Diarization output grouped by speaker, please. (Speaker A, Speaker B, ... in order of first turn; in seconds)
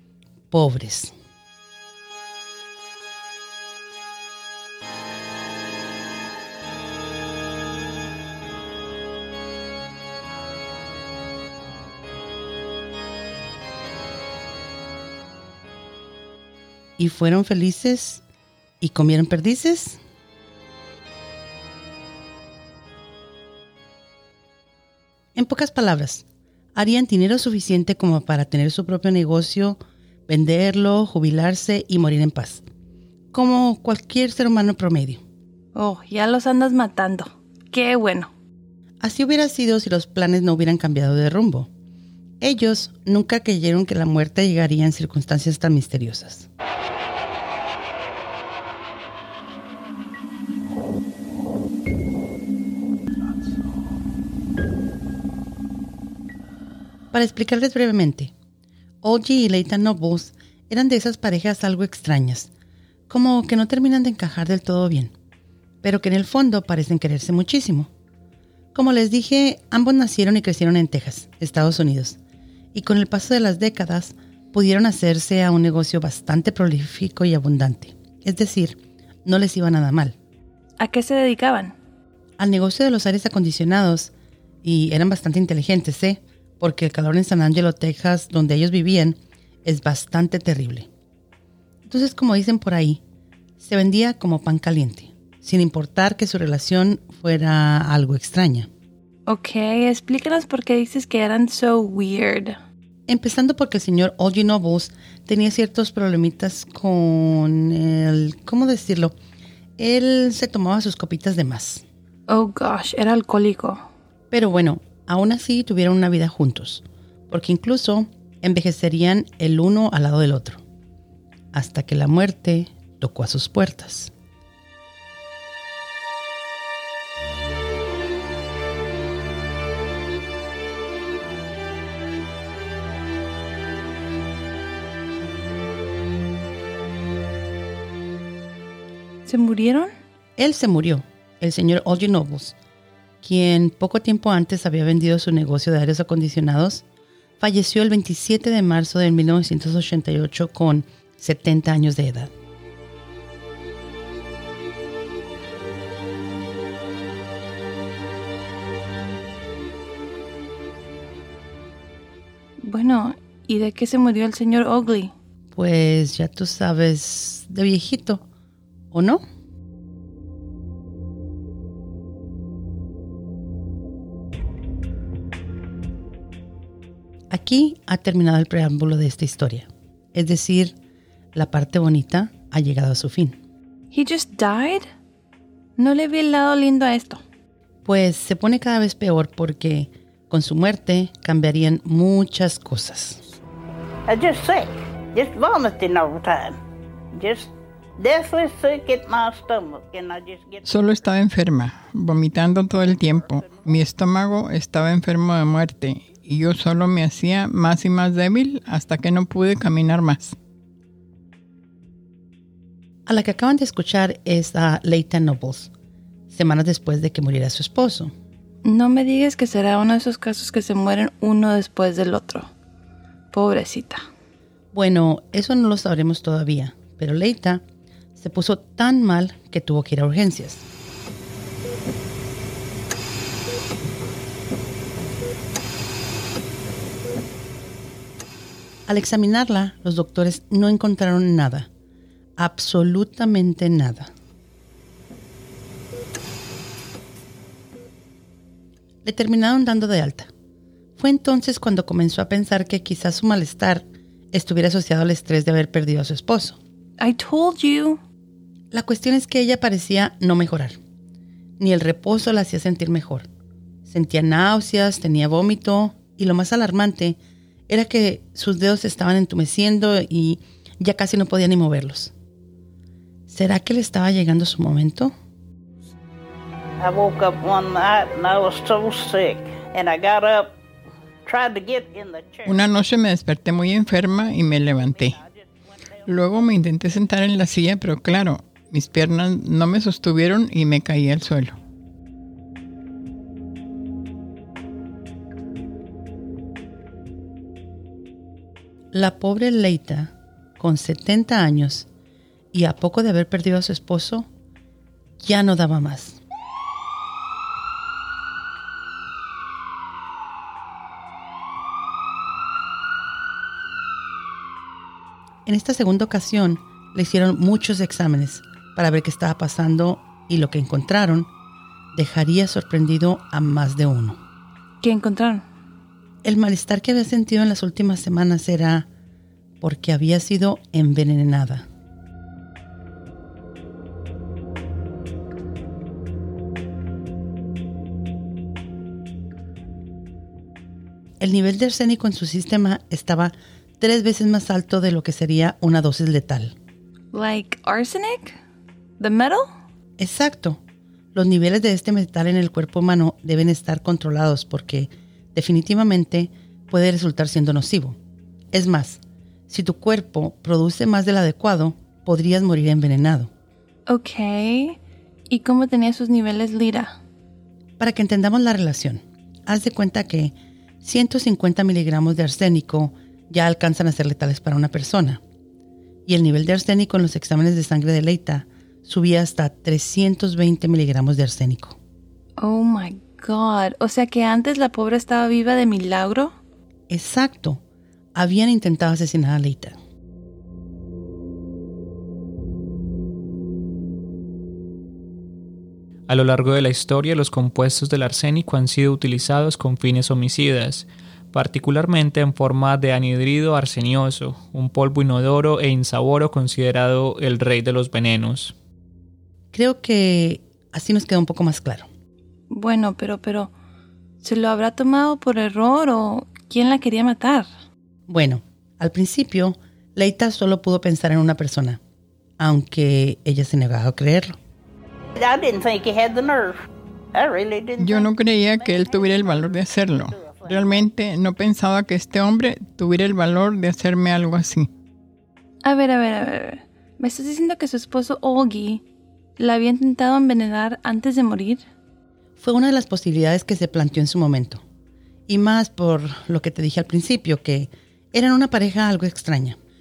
Speaker A: 0.5-1.1, 17.0-18.2, 18.8-20.0, 25.3-32.6, 33.3-35.2, 39.0-41.7, 42.4-46.5, 57.1-58.3, 59.0-62.5, 63.1-65.1, 65.8-67.9, 68.7-72.2, 72.7-80.1, 82.4-84.1, 84.6-90.9, 91.9-93.0, 93.6-98.7, 103.1-109.1, 109.8-111.8, 114.3-120.6, 121.5-124.1, 140.4-142.5, 143.2-146.8, 147.4-152.3, 165.5-168.2, 168.9-169.2, 177.3-180.7, 181.3-183.4, 187.8-193.2, 213.1-215.7, 216.3-218.1, 224.7-227.6, 228.2-230.6, 238.9-241.7, 242.4-244.1, 249.0-250.3, 251.0-256.6, 258.7-260.8, 261.6-263.3, 263.9-267.2, 267.7-272.1, 273.3-275.1, 298.9-301.9, 302.5-304.3, 305.2-306.2, 315.4-321.3, 321.9-324.2, 326.2-328.9, 329.6-331.7, 341.2-346.5, 350.0-350.6, 351.1-358.0, 358.5-363.3, 367.8-375.2, 376.1-381.8, 386.9-387.6, 388.1-389.8, 409.5-411.9, 418.1-421.8, 422.4-424.4, 442.4-444.6, 445.3-449.6
Speaker B: 35.7-38.3, 80.8-81.7, 99.3-102.6, 112.3-113.8, 139.2-139.9, 162.6-165.1, 183.9-184.9, 185.8-187.2, 218.6-222.5, 223.3-224.0, 257.0-258.0, 324.8-325.4, 347.1-348.4, 349.0-349.5, 363.9-367.0, 382.4-386.3, 412.5-413.5, 414.2-417.5, 435.6-438.8, 439.4-441.6
Speaker C: 194.1-196.6, 197.1-200.6, 276.8-280.5, 281.2-282.5, 284.9-285.4, 425.1-426.6, 427.1-430.8
Speaker D: 200.6-210.3, 282.4-285.2, 286.1-291.6, 427.8-434.7
Speaker E: 396.1-408.5